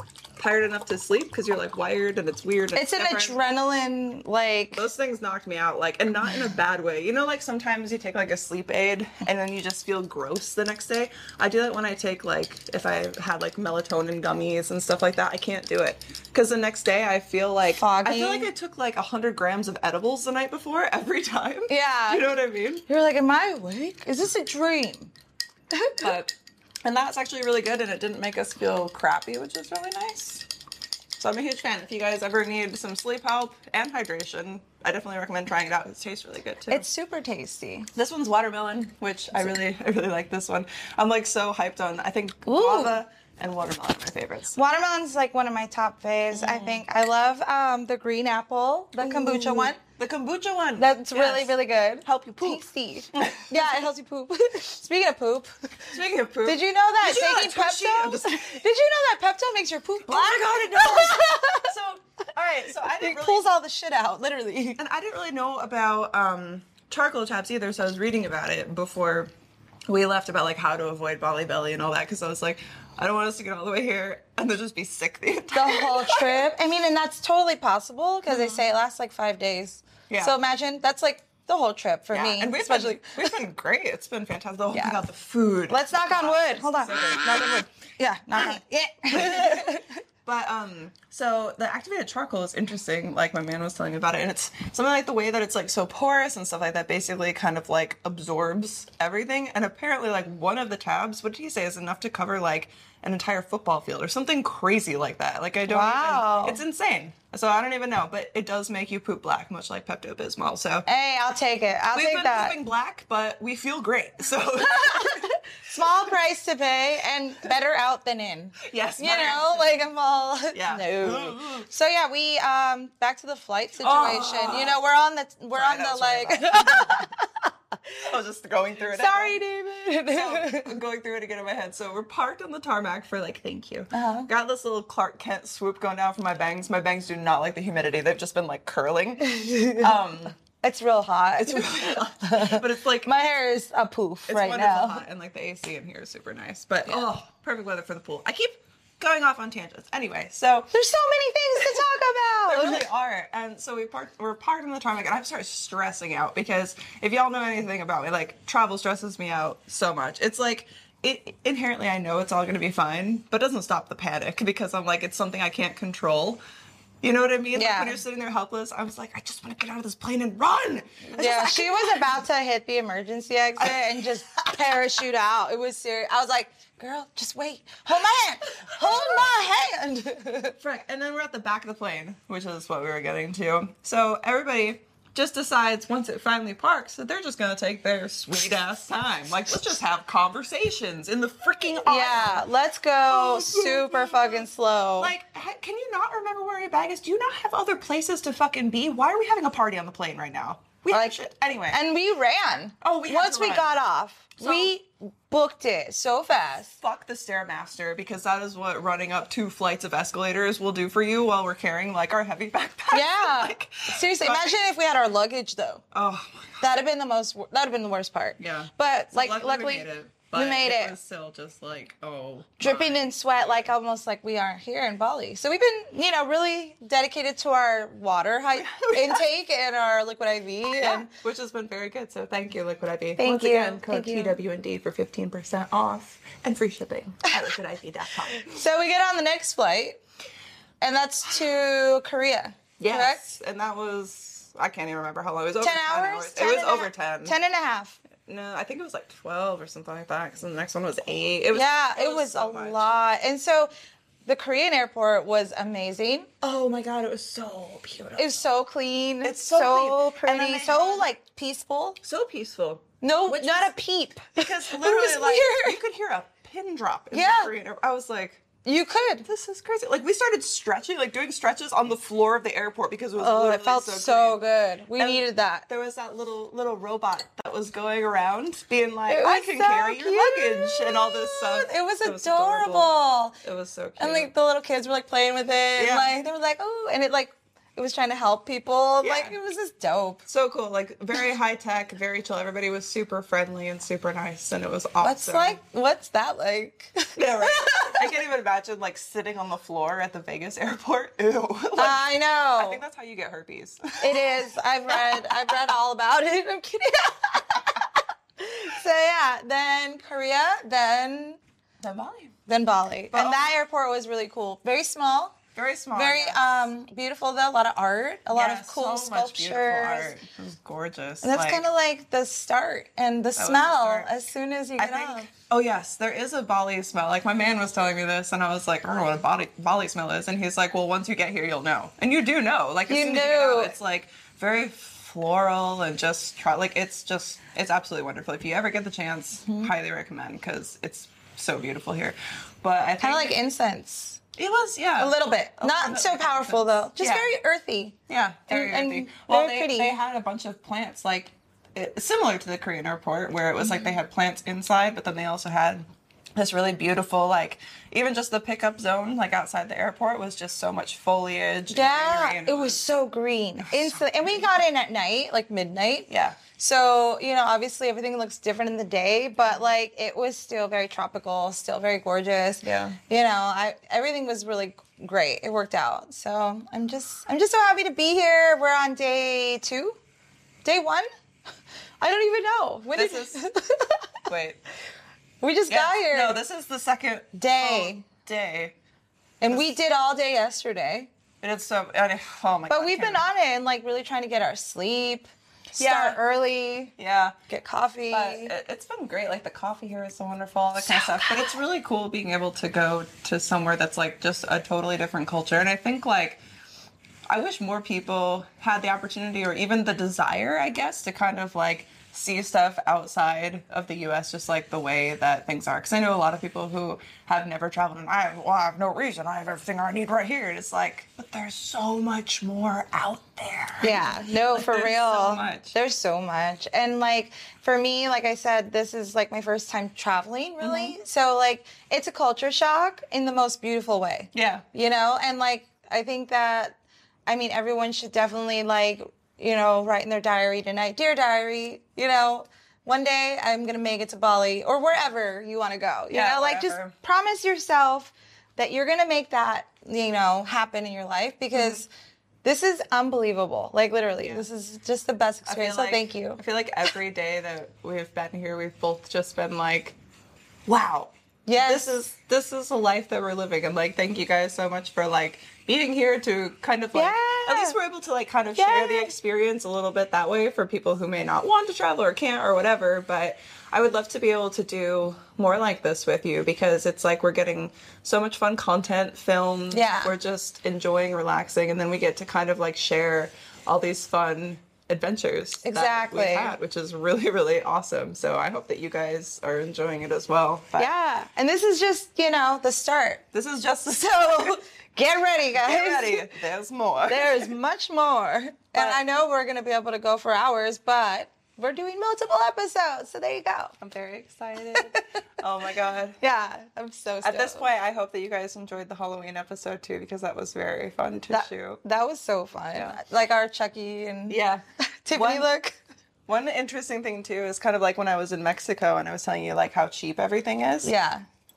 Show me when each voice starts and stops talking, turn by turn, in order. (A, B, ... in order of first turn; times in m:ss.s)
0:00.4-0:03.4 A
0:02.7-0:04.8 B
0:04.7-0:22.8 A
0:17.8-0:18.5 B
0:21.7-0:22.3 B
0:22.8-0:25.1 B
0:25.7-0:26.1 B
0:26.0-0:30.5 A
0:31.2-0:36.9 A
0:36.7-0:37.9 B
0:37.9-0:44.6 A
0:42.4-0:43.0 B
0:44.5-0:49.8 B
0:46.3-0:46.8 A
0:49.0-0:53.7 A
0:50.8-0:55.5 B
0:55.9-0:58.6 A
0:56.4-1:01.7 B
1:00.0-1:03.5 A
1:02.9-1:04.8 B
1:04.8-1:09.3 A
1:09.9-1:16.4 A
1:15.5-1:23.4 B
1:18.3-1:18.6 A
1:20.1-1:20.3 A
1:22.1-1:27.7 A
1:24.7-1:25.0 B
1:25.7-1:30.0 B
1:28.3-1:28.6 A
1:29.1-1:50.8 A
1:45.7-1:46.6 B
1:50.8-1:52.6 B
1:51.9-1:55.3 A
1:54.6-2:07.3 B
1:58.6-1:59.8 A
2:00.5-2:01.7 A
2:03.8-2:04.8 A
2:05.5-2:07.1 A
2:08.0-2:09.4 A
2:08.8-2:10.7 B
2:10.1-2:20.4 A
2:13.9-2:14.3 B
2:19.2-2:19.9 B
2:20.6-2:25.0 B
2:21.4-2:23.1 A
2:24.3-2:30.7 A
2:30.7-2:32.8 B
2:32.4-2:46.4 A
2:47.0-2:52.2 A
2:47.5-2:48.0 B
2:51.1-3:00.6 B
2:53.6-2:54.0 A
2:58.7-2:59.3 A
3:00.6-3:12.4 A
3:11.8-3:15.1 B
3:13.1-3:21.8 A
3:20.9-3:21.2 B
3:21.7-3:26.7 B
3:22.8-3:23.7 A
3:24.4-3:24.7 A
3:26.8-3:34.6 A
3:32.9-3:35.8 B
3:35.9-3:36.6 A
3:36.6-3:40.9 B
3:38.4-3:43.7 A
3:42.6-3:51.1 B
3:48.5-3:49.2 A
3:50.8-3:58.6 A
3:53.2-3:54.4 B
3:58.3-4:00.0 B
4:00.8-4:03.2 B
4:02.8-4:07.4 A
4:05.6-4:08.0 B
4:08.2-4:12.8 A
4:11.5-4:13.7 B
4:14.2-4:16.3 B
4:16.4-4:18.4 A
4:18.2-4:22.0 B
4:19.2-4:21.1 A
4:22.0-4:23.7 A
4:23.0-4:25.8 B
4:24.3-4:28.4 A
4:27.1-4:27.5 B
4:28.6-4:29.2 B
4:29.2-4:34.4 A
4:33.2-4:35.6 B
4:35.0-4:44.3 A
4:39.1-4:43.4 B
4:44.0-4:50.2 B
4:45.8-4:46.2 A
4:49.0-4:49.4 A
4:50.3-4:55.6 A
4:55.0-4:58.0 B
4:57.2-5:04.3 A
5:01.8-5:02.8 B
5:04.0-5:11.4 B
5:04.9-5:05.5 A
5:11.8-5:12.3 A
5:12.5-5:15.4 B
5:13.1-5:13.5 A
5:15.5-5:16.7 A
5:15.9-5:20.1 B
5:18.3-5:21.6 A
5:21.2-5:25.3 B
5:23.4-5:24.1 A
5:24.8-5:43.3 A
5:32.9-5:33.7 B
5:39.4-5:39.7 B
5:43.0-5:44.2 B
5:44.4-5:47.3 A
5:45.0-5:48.0 B
5:48.1-6:02.8 A
5:48.5-5:49.9 B
6:01.7-6:20.0 B
6:03.6-6:04.6 A
6:06.1-6:06.4 A
6:12.6-6:13.0 A
6:20.6-6:21.1 B
6:22.0-6:24.3 B
6:22.9-6:23.4 A
6:24.2-6:24.6 A
6:25.4-6:26.4 B
6:25.7-6:28.7 A
6:27.3-6:28.0 B
6:29.4-6:31.1 B
6:29.4-6:29.8 A
6:31.4-6:33.3 A
6:32.7-6:36.9 B
6:35.7-6:36.2 A
6:37.0-6:37.4 A
6:37.5-6:38.5 B
6:38.1-6:46.4 A
6:40.8-6:41.5 B
6:47.3-7:05.7 A
7:03.8-7:31.9 B
7:10.6-7:11.0 A
7:14.3-7:14.6 A
7:26.1-7:26.9 A
7:31.5-7:31.8 A
7:32.4-7:36.4 B
7:34.2-7:34.4 A
7:35.4-7:40.0 A
7:40.7-8:10.9 A
7:41.4-7:41.8 B
7:46.9-7:47.8 B
7:48.6-7:49.1 B
7:59.7-8:00.1 B
8:05.6-8:06.5 B
8:10.8-8:13.2 B
8:13.3-8:14.6 A
8:13.9-8:16.3 B
8:15.5-8:17.5 A
8:17.0-8:23.7 B
8:18.7-8:19.0 A
8:23.8-8:26.2 A
8:24.7-8:25.0 B
8:26.2-8:27.7 B
8:27.2-8:31.8 A
8:31.3-8:34.4 B
8:32.7-8:33.0 A
8:34.3-8:35.5 A
8:35.0-8:35.8 B
8:36.3-8:40.9 A
8:40.8-8:41.2 B